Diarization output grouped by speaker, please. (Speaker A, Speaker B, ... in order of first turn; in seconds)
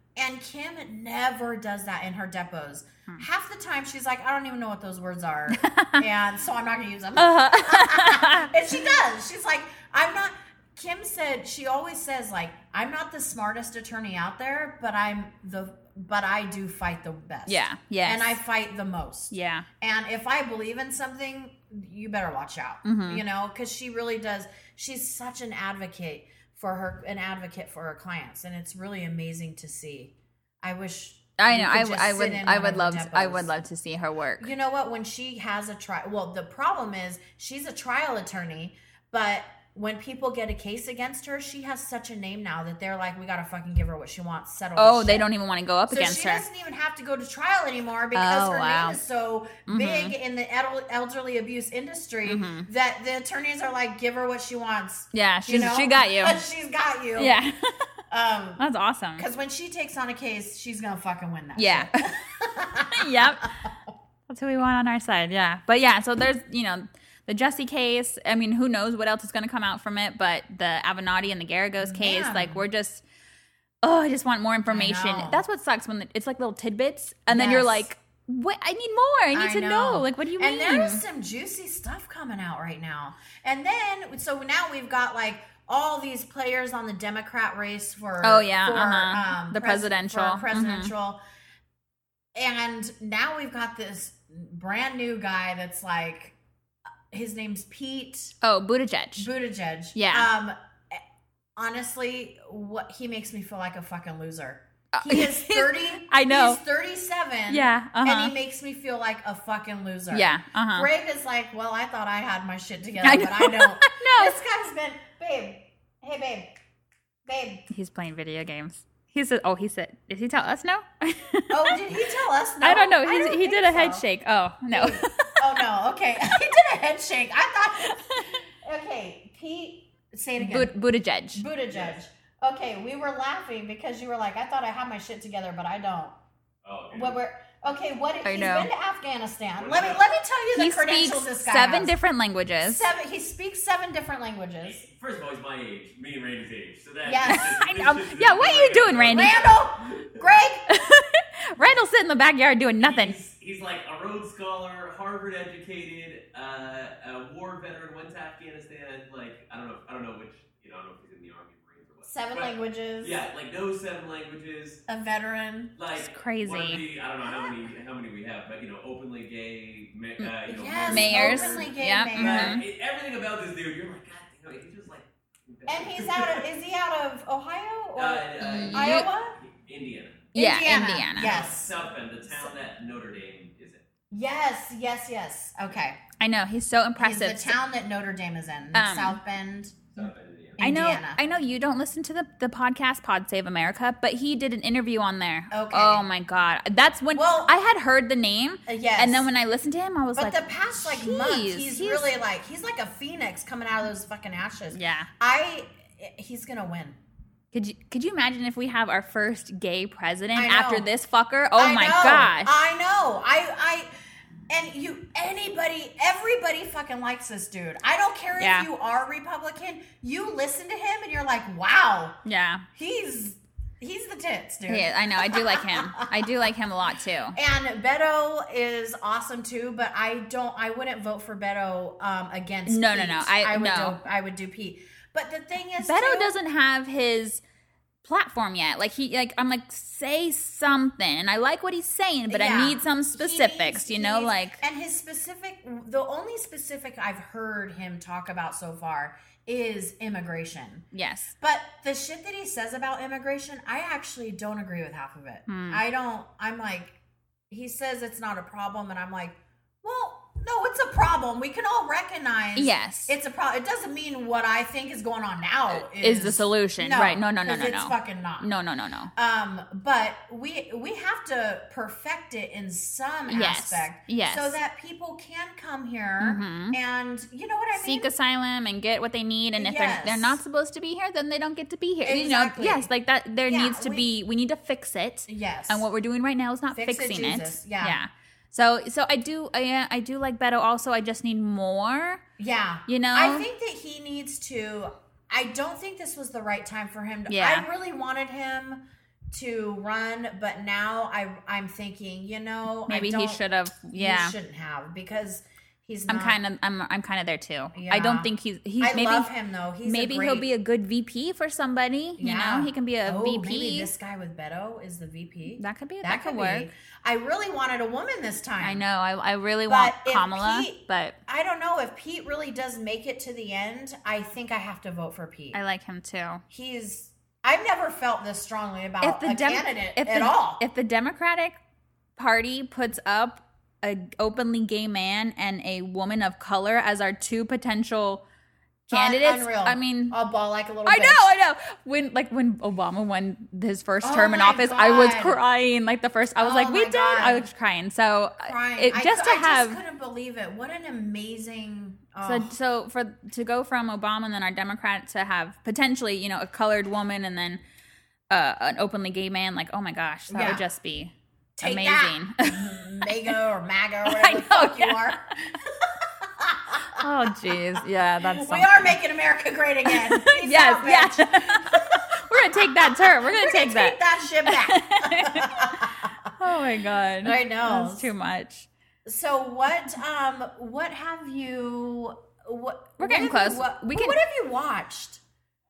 Speaker A: 0.2-33.5, 34.4-45.2, 45.9-57.4, 58.1-58.6, 59.2-63.8, 71.8-72.6, 74.7-75.4, 77.3-77.9, 79.3-91.2, 92.3-96.3, 97.1-98.3, 99.2-101.0, 101.6-116.5, 117.3-117.7, 121.5-124.0, 124.7-130.7, 131.3-136.2, 136.9-141.9, 142.6-144.8, 147.1-147.6, 149.1-150.7, 162.1-163.2, 164.9-165.7, 170.5-172.6, 175.7-179.4, 180.3-181.7, 184.1-186.0, 187.0-189.9, 190.6-191.2, 195.5-196.1, 197.1-197.5, 198.7-199.3, 200.2-207.0, 210.3-210.9, 211.6-213.9, 214.5-222.2, 222.7-226.3, 227.3-236.3, 242.3-250.9, 251.4-257.0, 257.5-268.5, 269.1-278.1, 279.6-280.4, 282.0-282.9, 283.5-284.1, 285.3-285.9, 286.7-288.0, 292.4-306.4, 307.7-310.5, 312.2-318.8, 319.7-325.6, 326.5-330.6, 338.9-341.3, 344.0-345.4, 346.4-347.5, 348.4-352.5, 360.3-360.6, 361.6-376.3, 377.2-378.1, 379.1-385.2
Speaker B: 5.5-6.0, 7.2-8.8, 17.5-18.4, 19.3-19.7, 22.8-23.2, 31.4-34.5, 44.8-46.5, 48.1-49.0, 49.7-50.1, 52.3-52.7, 55.1-56.4, 57.2-57.9, 58.6-59.2, 61.6-62.1, 63.0-63.5, 64.3-73.0, 73.8-81.0, 88.2-90.9, 98.4-99.3, 100.0-100.3, 104.9-106.6, 107.5-108.3, 110.1-110.9, 113.0-114.4, 117.7-121.8, 122.6-125.4, 130.4-131.4, 138.2-138.7, 140.5-142.9, 147.2-149.4, 150.7-153.2, 165.9-166.8, 170.8-172.6, 178.4-179.1, 180.3-181.4, 186.2-187.6, 188.7-189.2, 190.6-202.1, 204.7-205.1, 207.5-212.5, 218.4-218.7, 222.2-222.7, 224.7-227.4, 232.7-234.0, 235.8-237.4, 238.0-244.6, 250.9-251.3, 255.5-255.8, 262.6-263.1, 265.8-269.1, 273.3-274.6, 276.2-276.8, 277.7-292.2, 292.9-293.5, 297.3-297.7, 302.9-304.4, 306.1-309.3, 309.8-313.9, 315.6-316.7, 318.6-321.2, 325.5-326.4, 329.0-331.6, 332.2-338.2, 338.9-340.2, 340.9-349.8, 352.2-357.6, 358.3-361.1, 361.6-363.3, 364.1-365.2, 367.0-369.0, 369.9-378.7, 383.0-384.2
Speaker C: 131.7-132.0, 136.6-137.2, 139.6-140.1, 144.7-150.2, 152.8-164.8, 165.8-176.4, 178.0-180.3, 181.2-183.8, 189.9-190.6